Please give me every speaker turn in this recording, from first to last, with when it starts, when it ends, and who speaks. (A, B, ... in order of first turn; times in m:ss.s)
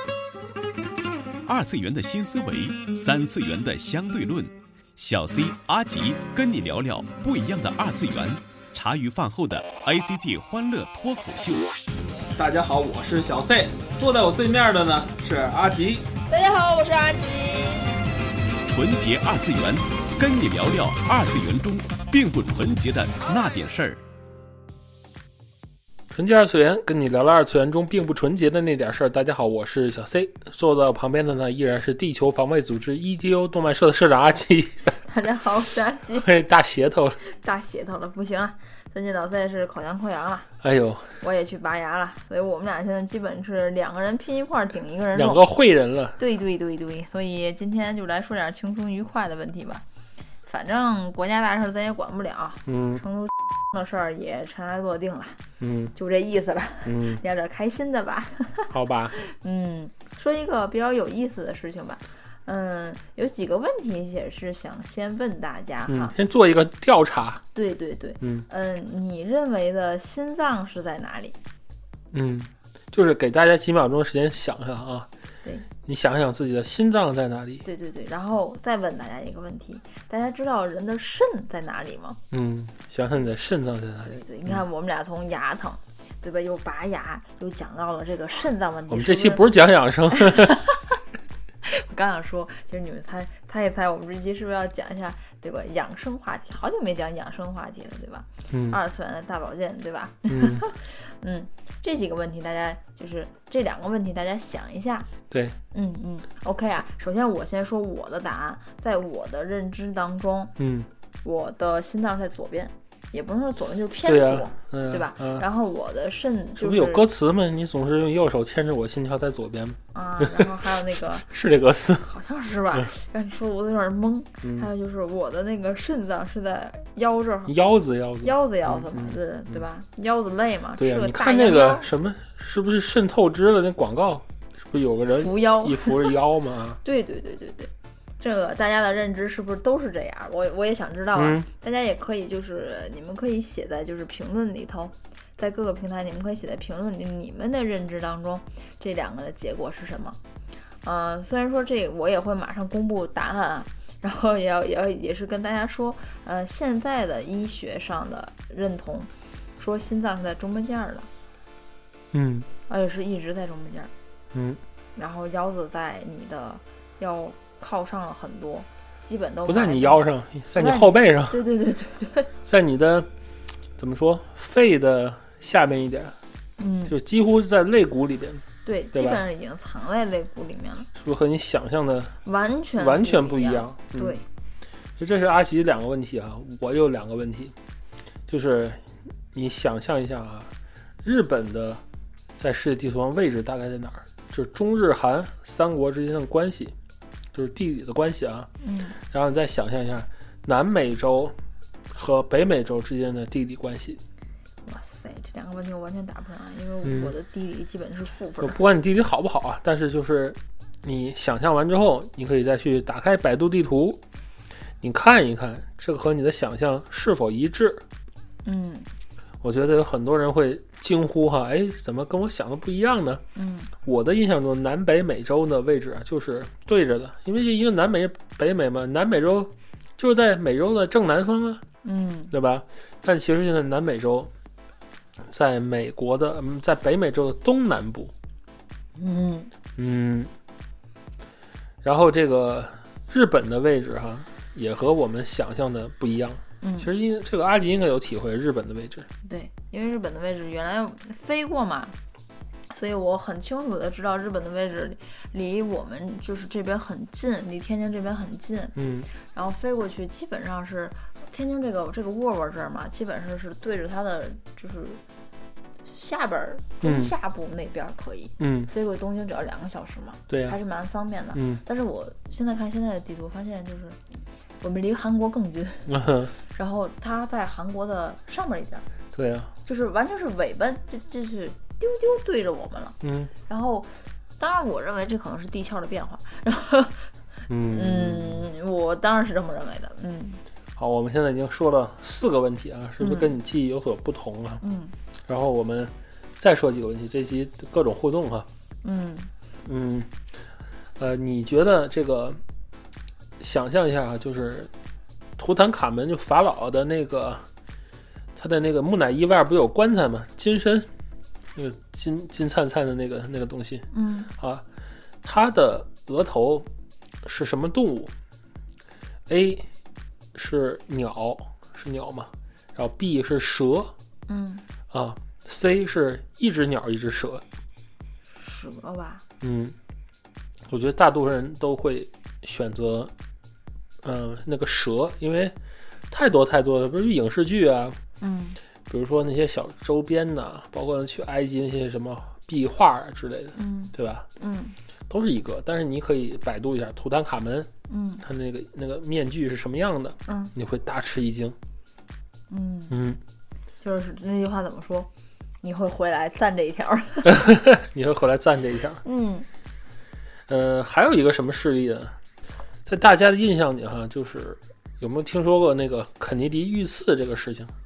0:01.4-0:11.7 A
0:12.4-0:16.0 B
0:16.3-0:17.8 C
0:18.6-0:24.0 A
0:26.1-0:35.0 B
0:35.0-0:36.3 C
0:36.2-0:37.2 B
0:37.2-0:40.5 C
0:40.6-0:41.1 B
0:41.2-0:45.4 C
0:45.1-0:46.2 B
0:46.2-0:49.8 C
0:50.4-0:55.4 C
0:52.6-0:53.0 B
0:55.6-0:55.9 B
0:55.9-1:06.1 C
0:56.8-0:57.2 B
0:58.7-0:59.1 B
1:05.9-1:07.4 B
1:07.5-1:11.4 C
1:08.2-1:08.4 B
1:12.1-1:15.1 B
1:15.8-1:17.6 B
1:17.6-1:22.2 C
1:22.3-1:24.6 B
1:24.0-1:29.4 C
1:28.9-1:30.6 B
1:30.1-1:30.8 C
1:31.6-1:45.1 C
1:38.5-1:38.8 B
1:40.3-1:40.6 B
1:45.3-1:45.6 B
1:45.7-1:50.5 C
1:50.6-1:50.9 B
1:51.2-1:57.0 C
1:54.0-1:55.4 B
1:56.6-2:00.6 B
1:59.9-2:01.2 C
2:01.2-2:02.1 B
2:02.0-2:07.5 C
2:04.4-2:04.7 B
2:07.5-2:09.6 B
2:08.2-2:11.9 C
2:10.8-2:16.8 B
2:15.1-2:16.1 C
2:16.8-2:30.2 C
2:21.2-2:21.5 B
2:30.8-2:41.1 C
2:42.1-2:42.5 B
2:42.7-2:43.9 C
2:44.3-2:44.6 B
2:45.0-2:50.0 C
2:49.5-2:51.4 B
2:50.6-2:52.3 C
2:52.4-2:53.1 B
2:53.8-2:56.2 B
2:56.6-2:57.0 C
2:56.9-2:58.4 B
2:58.6-3:00.9 C
2:58.9-2:59.2 B
3:00.9-3:02.1 B
3:02.2-3:04.2 C
3:02.8-3:04.2 B
3:05.0-3:07.5 B
3:08.3-3:10.5 B
3:11.0-3:11.8 B
3:12.4-3:16.7 B
3:17.3-3:18.5 B
3:18.6-3:19.0 C
3:19.0-3:21.3 B
3:21.9-3:24.0 B
3:24.6-3:28.6 C
3:26.8-3:27.1 B
3:28.4-3:34.0 B
3:34.8-3:37.8 B
3:38.4-3:38.9 C
3:39.4-3:43.2 B
3:43.3-3:43.7 C
3:43.8-3:51.6 B
3:51.8-3:52.3 C
3:52.3-3:54.3 B
3:55.3-3:58.1 B
3:59.0-3:59.5 C
3:59.8-4:00.3 B
4:01.8-4:09.1 B
4:06.6-4:06.9 C
4:09.2-4:11.9 C
4:12.7-4:25.0 C
4:18.8-4:19.1 B
4:25.8-4:34.0 C
4:26.8-4:27.1 B
4:28.4-4:28.7 B
4:30.3-4:30.6 B
4:31.3-4:31.6 B
4:34.6-4:35.9 C
4:35.9-4:36.3 B
4:36.5-4:38.8 C
4:39.1-4:39.5 B
4:39.6-4:47.1 C
4:43.0-4:43.3 B
4:47.5-4:48.5 B
4:47.6-4:50.4 C
4:50.8-4:54.6 B
4:53.0-4:53.3 C
4:54.6-4:54.9 C
4:55.3-4:58.5 B
4:58.8-4:59.3 C
4:59.6-5:00.1 B
5:01.0-5:02.4 B
5:03.4-5:04.7 B
5:05.4-5:07.4 B
5:08.4-5:10.9 B
5:11.5-5:13.8 B
5:13.9-5:14.3 C
5:14.4-5:14.6 B
5:15.2-5:16.7 B
5:17.2-5:18.1 B
5:19.3-5:19.7 B
5:20.3-5:23.9 B
5:24.3-5:24.6 C
5:24.9-5:27.4 B
5:28.3-5:29.2 C
5:29.4-5:29.8 B
5:30.7-5:33.1 B
5:34.0-5:35.6 B
5:36.1-5:38.0 B
5:38.2-5:38.6 C
5:38.9-5:44.3 B
5:43.6-5:44.8 C
5:45.1-5:47.7 B
5:47.9-5:48.2 C
5:48.2-5:51.6 B
5:50.3-5:50.5 C
5:52.5-5:53.0 C
5:52.9-5:53.2 B
5:53.8-5:55.1 C
5:55.6-5:57.4 C
5:57.2-5:59.0 B
5:59.0-5:59.5 C
6:00.5-6:02.1 B
6:02.8-6:07.7 B